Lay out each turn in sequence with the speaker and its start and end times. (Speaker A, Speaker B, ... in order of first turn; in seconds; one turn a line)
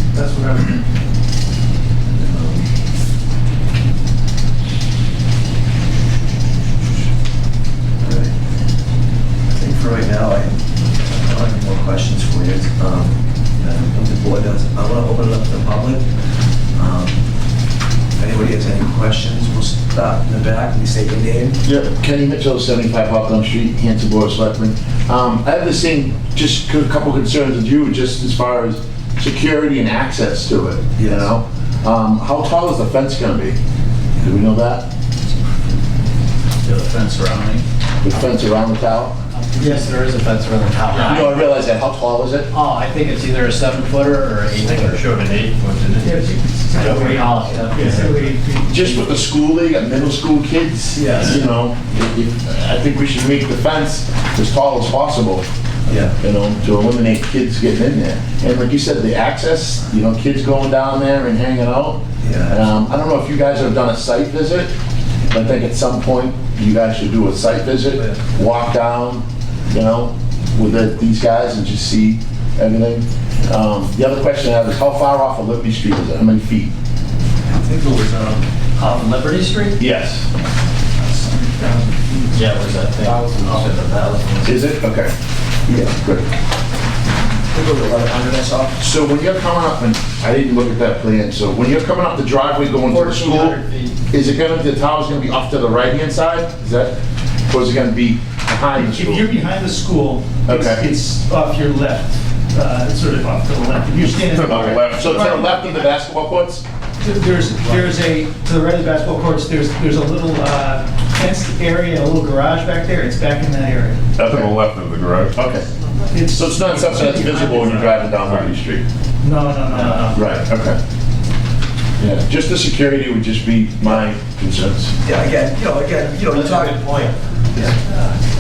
Speaker A: 0.1-0.8
Speaker B: 2.1-2.6
Speaker B: 8.0-8.3
Speaker B: 9.5-16.1
Speaker B: 16.8-17.2
Speaker B: 18.2-21.6
Speaker C: 21.6-33.6
Speaker B: 31.0-31.3
Speaker C: 34.2-34.9
Speaker D: 36.6-37.6
Speaker C: 38.0-39.2
Speaker A: 39.5-39.8
Speaker E: 39.5-41.4
Speaker D: 40.9-41.4
Speaker C: 41.0-42.5
Speaker E: 42.5-45.1
Speaker D: 44.5-46.2
Speaker A: 46.0-49.1
Speaker E: 46.7-48.2
Speaker C: 48.7-55.5
Speaker B: 55.9-56.2
Speaker C: 56.2-64.7
Speaker B: 62.2-62.6
Speaker C: 65.3-76.7
Speaker B: 77.5-78.5
Speaker E: 78.8-79.8
Speaker C: 79.8-80.3
Speaker A: 81.0-82.8
Speaker E: 82.3-84.6
Speaker C: 84.5-85.1
Speaker B: 85.7-86.0
Speaker C: 86.0-86.3
Speaker B: 87.5-88.8
Speaker C: 88.8-97.0
Speaker E: 92.9-94.0
Speaker C: 97.5-99.3
Speaker A: 98.8-105.8
Speaker C: 100.5-100.8
Speaker F: 104.3-105.1
Speaker C: 104.4-106.6
Speaker A: 107.0-114.0
Speaker C: 114.2-114.6
Speaker F: 114.3-115.4
Speaker C: 115.2-115.7
Speaker A: 116.1-118.1
Speaker C: 116.3-118.8
Speaker F: 118.2-118.5
Speaker A: 119.2-120.5
Speaker E: 119.7-120.2
Speaker C: 120.1-120.8
Speaker C: 122.0-125.0
Speaker B: 123.8-124.1
Speaker B: 125.0-127.8
Speaker E: 126.3-128.2